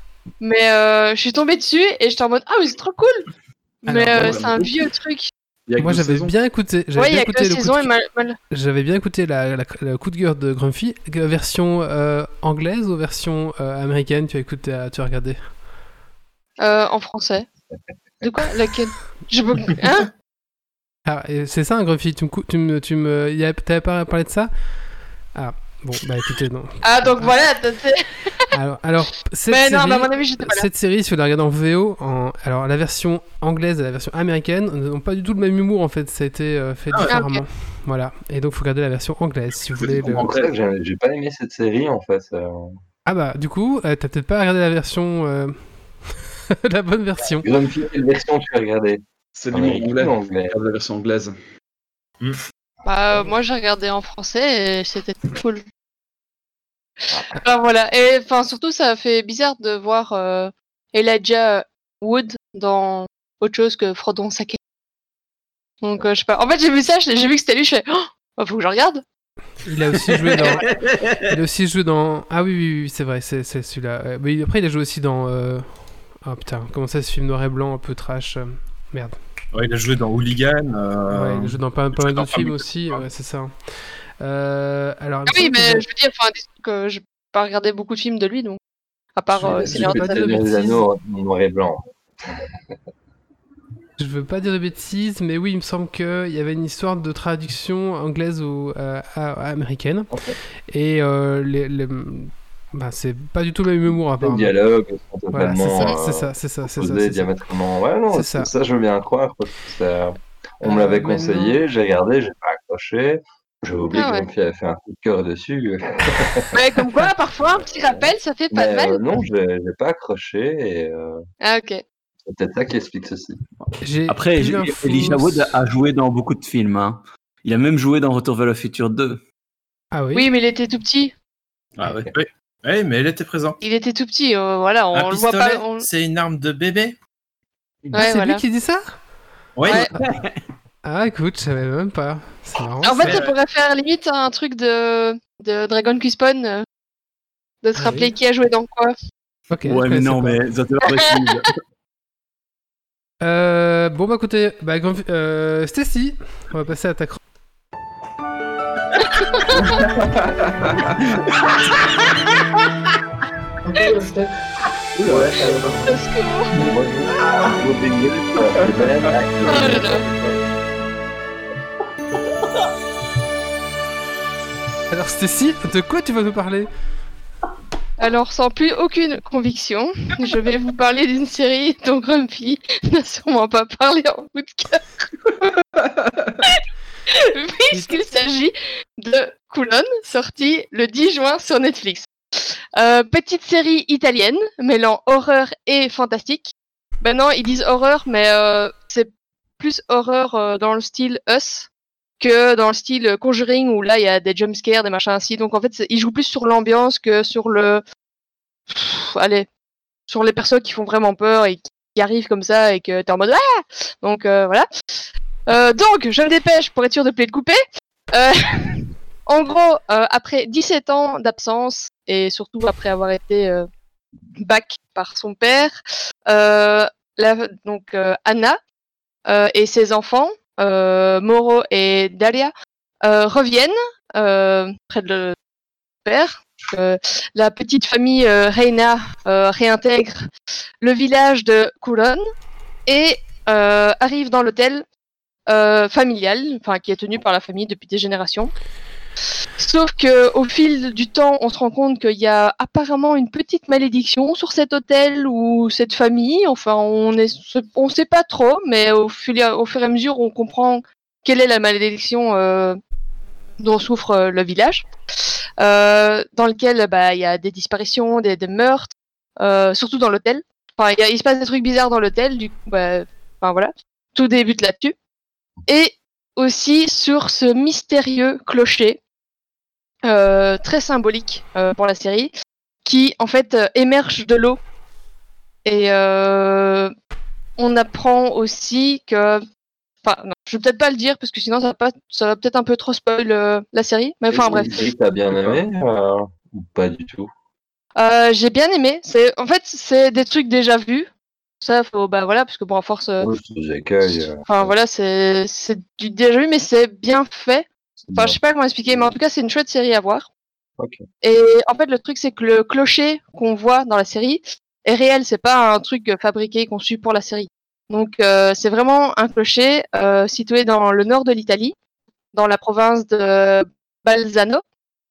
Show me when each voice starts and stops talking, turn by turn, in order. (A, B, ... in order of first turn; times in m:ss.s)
0:00.4-0:03.3 A
0:03.8-0:05.3 A
0:03.8-0:04.4 B
0:04.1-0:04.7 C
0:05.7-0:06.3 C
0:05.8-0:07.9 B
0:06.9-0:08.4 A
0:08.5-0:15.4 B
0:16.6-0:17.4 A
0:18.2-0:20.1 A
0:21.0-0:24.5 B
0:25.3-0:27.4 B
0:26.8-0:28.4 A
0:28.5-0:40.4 B
0:29.5-0:30.7 A
0:37.1-0:37.4 A
0:39.8-0:42.7 D
0:40.0-0:40.5 E
0:43.0-0:47.5 B
0:47.4-0:50.6 D
0:49.3-0:51.4 C
0:52.8-0:55.6 A
0:57.1-1:04.6 A
1:05.8-1:09.0 A
1:09.6-1:19.2 B
1:10.6-1:11.3 F
1:19.5-1:23.0 E
1:21.1-1:23.5 B
1:24.2-1:25.8 B
1:25.3-1:28.6 A
1:29.2-1:30.8 A
1:29.4-1:32.4 D
1:29.6-1:30.3 B
1:34.0-1:40.1 B
1:40.1-1:40.4 D
1:40.7-1:44.5 B
1:44.2-1:56.5 D
1:45.3-1:47.3 B
1:48.1-1:48.5 B
1:50.6-1:51.6 B
1:53.9-1:54.2 A
1:56.5-1:59.0 A
1:57.5-2:01.2 D
2:01.4-2:01.8 A
2:02.3-2:03.4 D
2:03.8-2:05.6 B
2:04.1-2:09.2 F
2:09.9-2:10.3 B
2:10.1-2:11.1 A
2:11.8-2:12.1 F
2:11.8-2:12.1 D
2:12.1-2:13.6 E
2:13.6-2:15.8 A
2:14.9-2:17.0 E
2:17.9-2:18.4 A
2:17.9-2:19.0 B
2:19.6-2:19.9 E
2:19.9-2:20.4 F
2:20.8-2:23.2 B
2:22.8-2:26.6 A
2:27.6-2:28.9 A
2:27.8-2:28.1 B
2:29.5-2:30.4 B
2:29.6-2:31.6 F
2:33.2-2:37.2 B
2:39.1-2:39.8 A
2:40.0-2:41.0 C
2:41.6-2:42.4 F
2:45.0-2:45.9 C
2:45.8-2:46.5 A
2:46.6-2:49.9 D
2:48.6-2:50.4 C
2:49.4-2:50.0 A
2:54.9-2:56.7 B
2:58.0-3:05.5 A
3:05.8-3:06.3 C
3:06.4-3:21.7 A
3:07.7-3:08.0 B
3:22.2-3:27.8 A
3:28.7-3:29.5 A
3:30.1-3:34.6 A
3:35.5-3:37.6 A
3:38.1-3:43.7 A
3:44.4-3:48.6 A
3:49.2-3:52.5 A
3:53.0-3:55.3 A
3:56.0-4:00.3 A
4:00.8-4:02.2 A
4:02.8-4:04.8 A
4:05.5-4:08.5 A
4:09.6-4:22.8 A
4:23.6-4:24.9 A
4:25.6-4:34.9 A
4:35.7-4:39.0 A
4:40.0-4:42.3 A
4:42.8-4:44.6 A
4:45.6-4:46.9 A
4:47.6-4:49.4 A
4:50.0-4:54.9 A
4:54.3-4:57.3 D
4:58.0-5:01.1 A
5:01.6-5:03.3 A
5:03.2-5:04.7 D
5:04.0-5:10.3 A
5:08.1-5:08.4 D
5:11.2-5:21.7 A
5:22.3-5:24.6 A